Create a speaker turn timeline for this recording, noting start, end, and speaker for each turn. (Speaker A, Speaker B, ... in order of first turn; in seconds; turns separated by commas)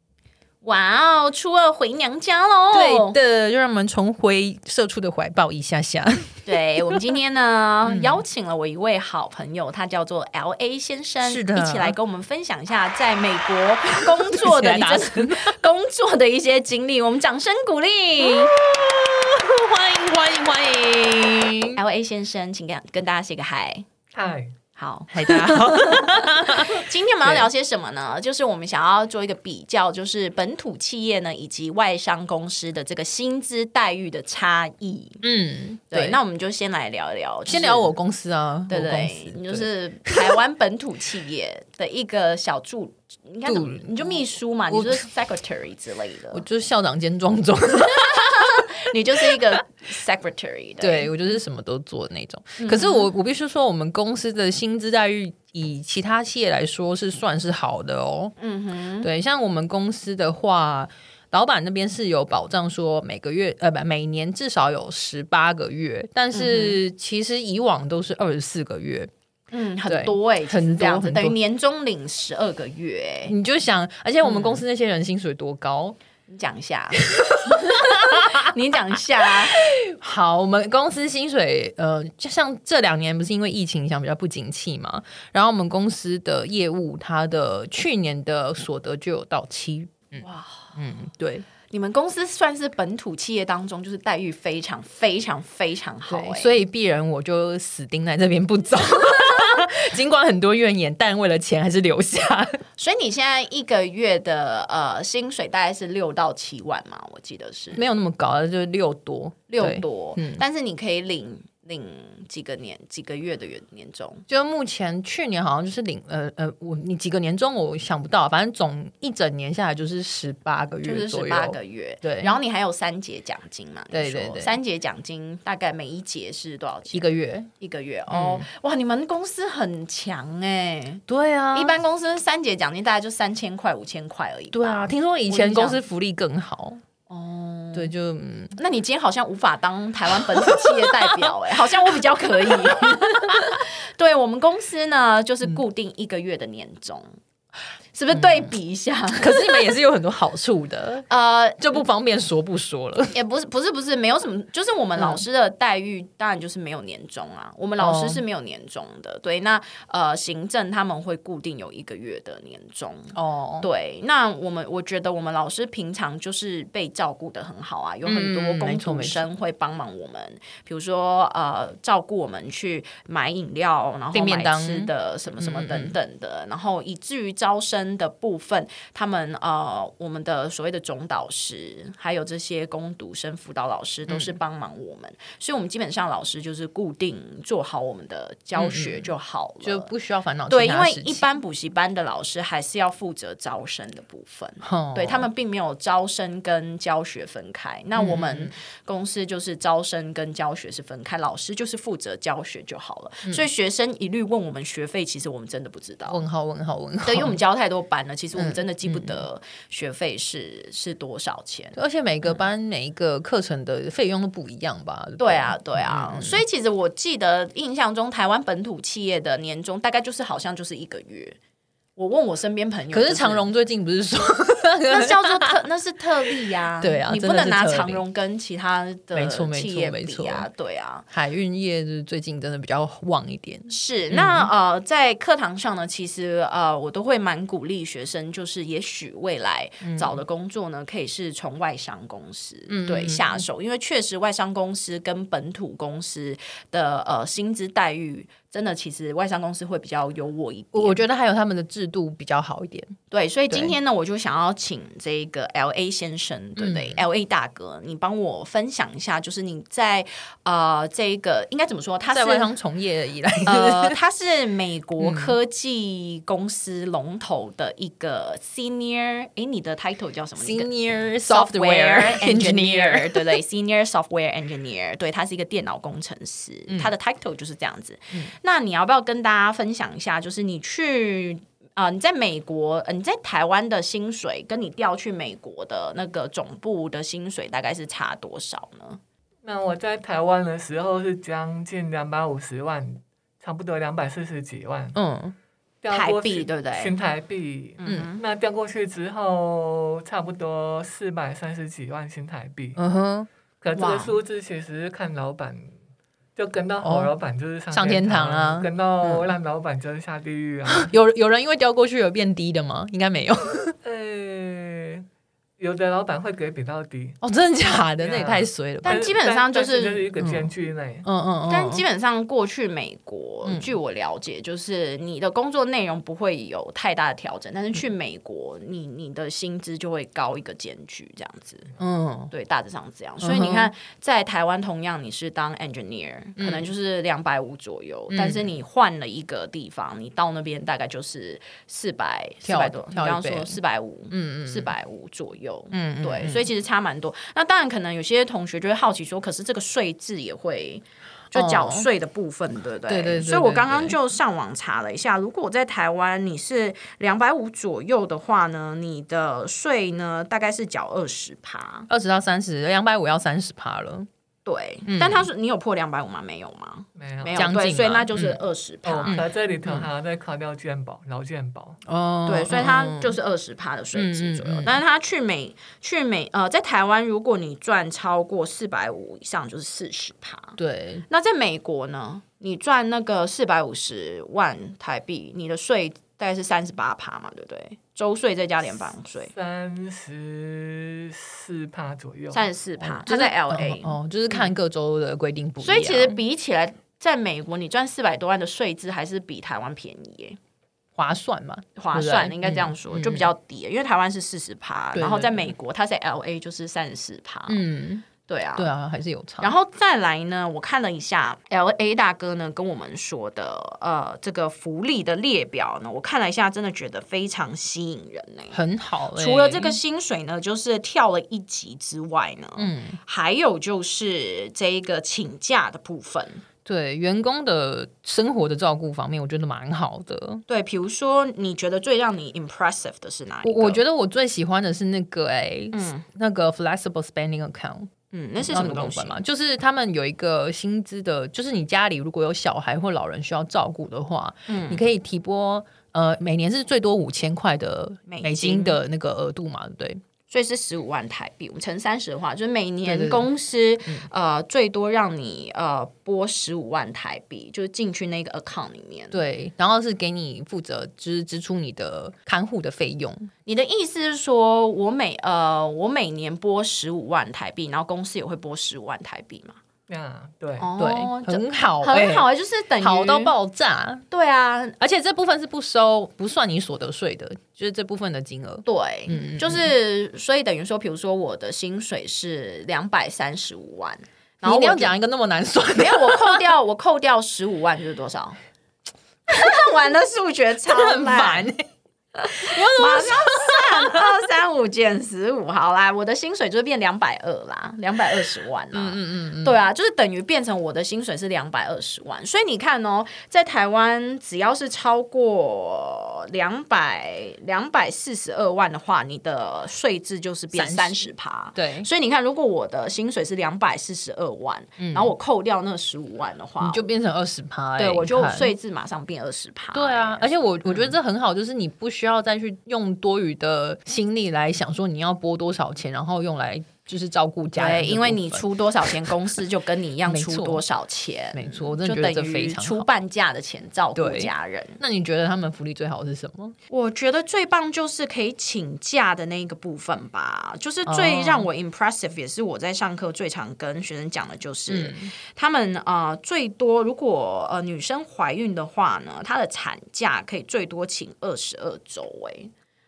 Speaker A: 0.6-3.2, Speaker B: 2.7-6.6, Speaker A: 6.5-18.5, Speaker B: 7.8-8.2, Speaker B: 11.2-11.9, Speaker B: 14.3-15.6, Speaker B: 18.2-21.8, Speaker A: 21.7-23.9, Speaker C: 24.1-24.6, Speaker A: 24.8-35.2, Speaker B: 25.1-27.5, Speaker B: 35.2-36.2, Speaker A: 35.9-37.9, Speaker B: 37.5-40.4, Speaker A: 38.7-46.4, Speaker B: 43.5-45.0, Speaker B: 46.3-48.6, Speaker A: 48.0-51.1, Speaker B: 50.8-58.4, Speaker A: 52.6-53.1, Speaker A: 58.4-59.1, Speaker B: 59.0-69.1, Speaker A: 66.3-66.8, Speaker A: 69.5-73.3, Speaker B: 69.9-71.4, Speaker B: 73.3-76.0, Speaker A: 74.2-74.6, Speaker A: 76.3-79.6, Speaker B: 77.1-78.4, Speaker B: 79.6-90.2, Speaker A: 90.2-90.8, Speaker B: 90.8-91.5, Speaker A: 91.7-96.5, Speaker B: 96.1-102.6, Speaker A: 102.8-107.8, Speaker B: 107.7-110.4, Speaker A: 109.5-114.2, Speaker B: 114.3-122.3, Speaker A: 120.8-135.8, Speaker B: 123.9-124.5, Speaker B: 126.9-127.5, Speaker B: 128.1-128.4, Speaker B: 131.1-131.8, Speaker B: 134.5-136.8, Speaker A: 137.1-137.9, Speaker B: 137.7-138.6, Speaker A: 138.6-147.1, Speaker B: 140.2-141.3, Speaker B: 142.5-143.6, Speaker A: 147.9-149.7, Speaker B: 148.1-148.5, Speaker B: 149.1-151.1, Speaker A: 151.1-151.8, Speaker B: 151.6-153.1, Speaker A: 153.1-189.9, Speaker B: 155.0-155.2, Speaker B: 157.8-158.2, Speaker B: 163.1-163.7, Speaker B: 168.0-169.3, Speaker B: 174.1-175.9, Speaker B: 184.1-184.3, Speaker B: 188.6-189.1, Speaker B: 189.6-191.2, Speaker A: 190.5-206.2, Speaker B: 194.6-195.3, Speaker B: 197.9-198.5, Speaker B: 206.1-207.4, Speaker A: 207.0-211.8, Speaker B: 208.3-209.2, Speaker B: 211.7-216.4, Speaker A: 215.2-221.4, Speaker A: 221.9-223.4, Speaker B: 222.9-225.5, Speaker A: 224.9-231.1, Speaker B: 226.8-228.0, Speaker B: 229.1-230.5, Speaker B: 231.1-234.5, Speaker A: 233.7-251.0, Speaker B: 239.8-240.2, Speaker B: 242.7-243.4, Speaker B: 250.7-253.0, Speaker A: 253.1-262.5, Speaker B: 253.5-253.8, Speaker B: 256.6-257.0, Speaker B: 262.1-264.0, Speaker A: 263.4-270.7, Speaker B: 265.0-265.3, Speaker B: 270.4-273.4, Speaker A: 271.2-289.0, Speaker C: 289.4-295.0, Speaker B: 294.9-295.3, Speaker C: 295.8-302.8, Speaker A: 295.9-296.9, Speaker A: 297.8-298.2, Speaker B: 302.8-303.3, Speaker C: 303.6-305.7, Speaker A: 303.8-304.1, Speaker C: 306.4-310.9, Speaker B: 306.8-307.1, Speaker B: 307.7-309.3, Speaker B: 310.7-313.8, Speaker C: 313.8-315.1, Speaker C: 315.6-317.2, Speaker B: 317.2-319.1, Speaker C: 318.0-321.1, Speaker A: 318.8-320.1, Speaker B: 320.2-320.5, Speaker B: 321.1-321.8, Speaker A: 321.5-331.7, Speaker B: 323.4-323.7, Speaker B: 331.8-332.3, Speaker A: 332.3-361.9, Speaker B: 333.2-333.7, Speaker B: 336.4-336.7, Speaker B: 338.1-338.5, Speaker B: 342.4-343.6, Speaker B: 344.1-344.7, Speaker B: 345.7-346.5, Speaker B: 351.3-351.9, Speaker B: 352.9-353.9, Speaker B: 361.9-364.1, Speaker A: 364.4-369.2, Speaker B: 364.9-365.3, Speaker C: 367.0-367.4, Speaker B: 367.3-368.4, Speaker C: 368.8-371.8, Speaker B: 369.1-369.9, Speaker B: 371.9-373.2, Speaker A: 372.3-389.3, Speaker B: 373.9-374.8, Speaker B: 380.6-381.1, Speaker C: 389.3-392.4, Speaker A: 392.3-394.5, Speaker B: 392.8-396.2, Speaker A: 395.6-400.4, Speaker B: 400.9-403.3, Speaker A: 401.8-407.6, Speaker B: 404.9-405.5, Speaker B: 407.5-409.5, Speaker A: 408.2-408.7, Speaker A: 409.4-418.6, Speaker B: 418.5-419.8, Speaker A: 419.1-426.4, Speaker B: 422.6-423.0, Speaker B: 426.6-430.4, Speaker A: 430.5-433.8, Speaker B: 433.4-437.9, Speaker A: 435.7-436.1, Speaker A: 438.1-439.2, Speaker B: 438.4-450.0, Speaker A: 444.5-444.8, Speaker A: 448.1-448.8, Speaker A: 450.3-459.2, Speaker B: 452.9-453.3, Speaker B: 459.1-463.3, Speaker A: 463.4-469.6, Speaker C: 469.9-470.7, Speaker A: 470.6-473.4, Speaker B: 470.8-472.3, Speaker B: 472.8-474.0, Speaker A: 474.1-474.8, Speaker B: 474.8-479.7, Speaker A: 478.6-484.9, Speaker B: 484.4-486.4, Speaker A: 485.8-488.4, Speaker A: 489.3-491.5, Speaker B: 490.7-491.6, Speaker B: 492.2-494.1, Speaker A: 492.3-516.9, Speaker B: 498.7-499.6, Speaker B: 510.5-511.9, Speaker B: 514.8-515.1, Speaker B: 516.6-518.5, Speaker A: 517.8-520.9, Speaker B: 519.7-529.1, Speaker A: 527.5-534.8, Speaker B: 530.1-530.6, Speaker B: 531.3-532.9, Speaker B: 534.0-536.5, Speaker A: 536.7-552.5, Speaker B: 540.9-541.5, Speaker B: 544.7-545.1